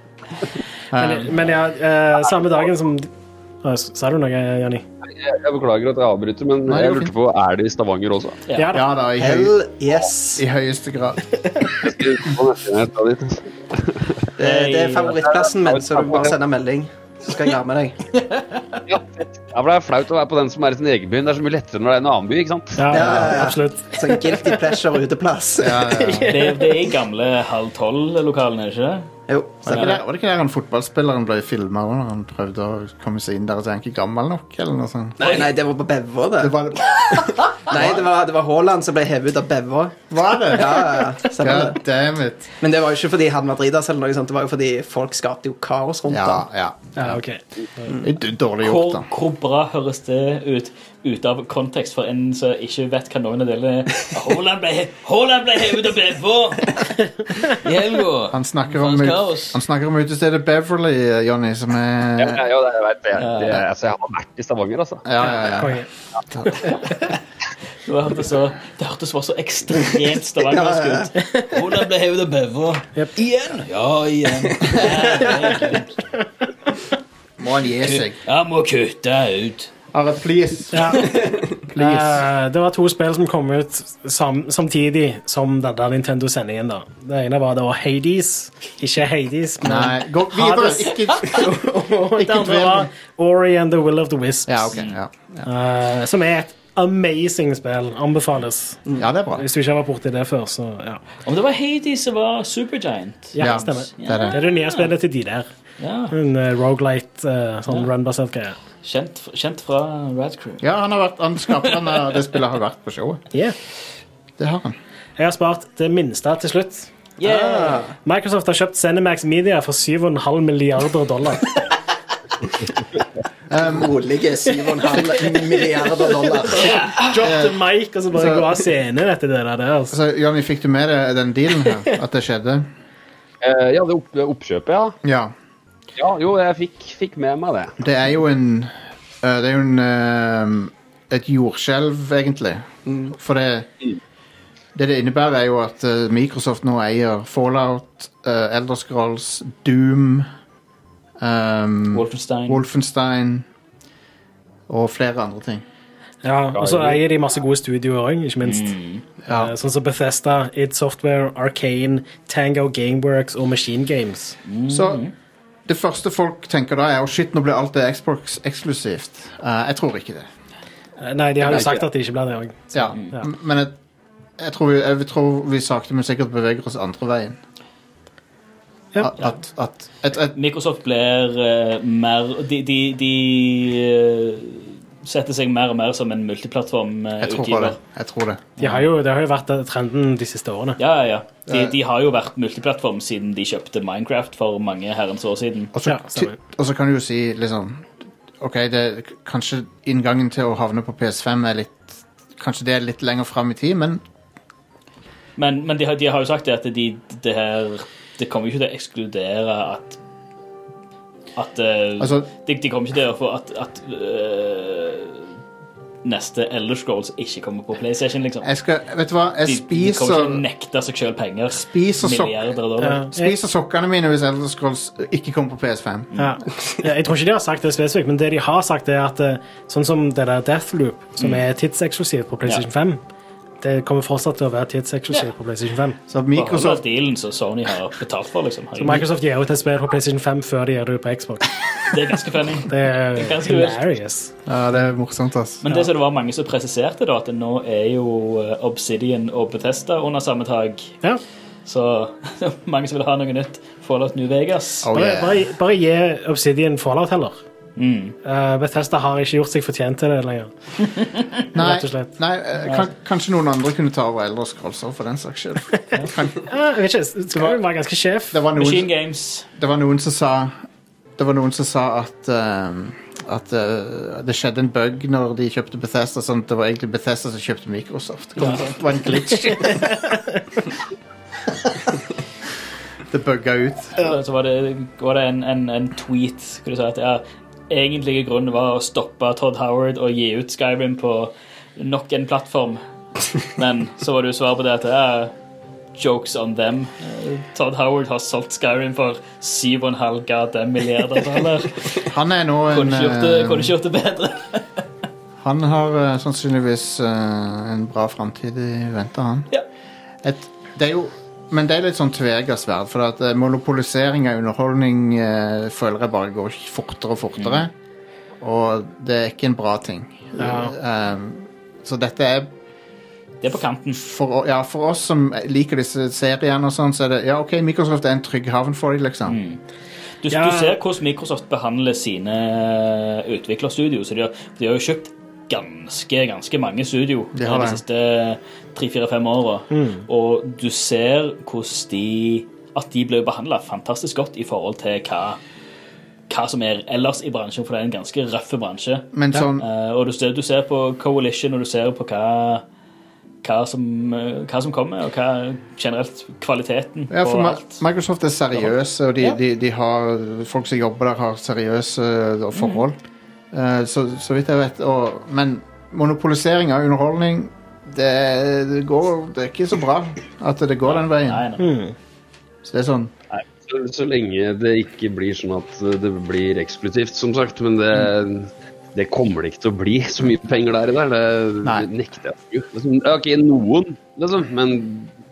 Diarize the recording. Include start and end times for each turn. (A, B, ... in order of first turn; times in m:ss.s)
0:00.9-0:01.3 A
0:01.0-0:03.1 B
0:03.6-0:04.8 B
0:05.1-0:08.4 C
0:06.7-0:07.1 A
0:08.5-0:08.7 D
0:08.6-0:08.8 B
0:08.7-0:09.6 A
0:09.2-0:10.4 E
0:10.4-0:11.6 A
0:11.8-0:14.3 C
0:14.4-0:18.0 E
0:14.4-0:15.2 D
0:15.2-0:16.4 C
0:18.1-0:18.8 D
0:18.9-0:23.2 C
0:22.8-0:24.6 B
0:22.9-0:25.9 E
0:25.6-0:26.4 A
0:25.9-0:26.8 B
0:26.3-0:29.1 D
0:29.3-0:30.0 E
0:29.6-0:35.3 A
0:35.2-0:36.6 E
0:35.2-0:35.5 D
0:36.4-0:38.1 A
0:37.0-0:37.5 D
0:37.7-0:41.8 E
0:40.1-0:42.5 A
0:42.6-0:46.5 E
0:46.1-0:47.2 A
0:47.0-0:47.9 B
0:48.0-0:49.1 A
0:48.6-0:59.6 D
0:58.3-1:02.4 A
1:02.2-1:05.1 C
1:03.2-1:03.6 D
1:05.0-1:05.8 A
1:05.6-1:05.9 B
1:06.7-1:07.2 D
1:07.9-1:16.0 D
1:10.4-1:11.3 E
1:17.4-1:18.2 A
1:17.8-1:19.7 D
1:19.9-1:21.2 A
1:20.7-1:21.2 B
1:21.7-1:22.2 A
1:21.8-1:34.7 B
1:29.6-1:32.9 A
1:34.5-1:35.5 A
1:35.4-1:41.0 B
1:39.0-1:39.5 A
1:41.2-1:44.9 D
1:43.3-1:45.5 B
1:43.4-1:44.4 A
1:45.8-1:46.2 D
1:46.1-1:48.6 B
1:48.8-1:50.7 D
1:50.6-1:53.2 A
1:54.4-1:54.8 A
1:55.2-1:56.9 B
1:57.2-1:57.9 E
1:57.2-1:57.8 D
1:57.9-2:01.6 B
2:03.5-2:03.9 A
2:03.6-2:06.9 E
2:06.2-2:10.0 B
2:07.2-2:07.6 A
2:08.1-2:08.6 A
2:09.9-2:12.7 A
2:13.4-2:15.0 C
2:15.0-2:15.3 A
2:16.0-2:17.8 C
2:17.8-2:23.7 A
2:22.9-2:23.1 E
2:24.8-2:30.3 A
2:31.2-2:33.5 A
2:31.9-2:32.6 D
2:34.7-2:35.6 A
2:36.2-2:38.8 B
2:36.6-2:37.0 C
2:38.4-2:39.0 D
2:39.2-2:39.5 A
2:39.3-2:44.4 B
2:44.5-2:45.1 D
2:44.7-2:45.0 A
2:45.7-2:50.3 A
2:51.0-2:53.2 B
2:51.4-2:51.8 C
2:52.7-2:53.8 A
2:54.4-2:57.4 A
2:58.9-2:59.2 B
2:59.0-3:00.4 A
3:00.3-3:07.8 D
3:07.2-3:08.4 A
3:08.6-3:08.9 D
3:08.6-3:10.8 B
3:10.8-3:15.7 D
3:11.5-3:11.7 A
3:15.7-3:24.0 A
3:15.9-3:16.4 B
3:25.4-3:30.0 D
3:31.4-3:35.3 D
3:32.0-3:32.3 A
3:36.0-3:38.5 D
3:38.4-3:40.4 A
3:39.4-3:43.1 D
3:41.5-3:42.5 A
3:42.8-3:43.3 B
3:43.1-3:46.1 A
3:46.1-3:46.4 D
3:46.2-3:53.0 B
3:53.6-3:56.0 B
3:56.1-3:56.8 A
3:56.3-3:59.1 D
3:58.8-4:01.5 B
4:01.9-4:03.9 D
4:02.7-4:04.3 B
4:04.5-4:05.6 A
4:05.6-4:10.9 D
4:11.7-4:14.9 D
4:14.8-4:15.4 A
4:14.9-4:17.4 B
4:17.8-4:18.2 D
4:18.2-4:20.5 B
4:21.5-4:26.5 A
4:21.6-4:22.1 B
4:26.4-4:28.4 B
4:28.3-4:28.9 A
4:28.5-4:29.4 D
4:29.6-4:30.5 A
4:31.2-4:40.0 A
4:38.5-4:38.8 D
4:39.3-4:40.4 B
4:43.1-4:44.1 A
4:44.0-4:55.3 D
4:56.0-5:02.1 D
5:02.1-5:03.7 A
5:02.7-5:04.6 D
5:05.4-5:09.5 A
5:10.2-5:17.7 A
5:17.4-5:17.6 D
5:18.4-5:22.5 A
5:20.4-5:20.7 B
5:23.4-5:24.0 D
5:23.9-5:29.4 A
5:29.3-5:29.6 D
5:30.2-5:45.4 D
5:30.3-5:30.8 B
5:37.4-5:37.8 A
5:39.7-5:40.0 B
5:46.3-5:52.6 D
5:49.1-5:49.7 A
5:53.4-5:57.8 D
5:57.1-6:03.0 A
6:02.5-6:02.8 D
6:03.5-6:11.5 A
6:10.9-6:11.7 D
6:11.6-6:11.9 B
6:12.6-6:13.1 A
6:13.3-6:25.1 C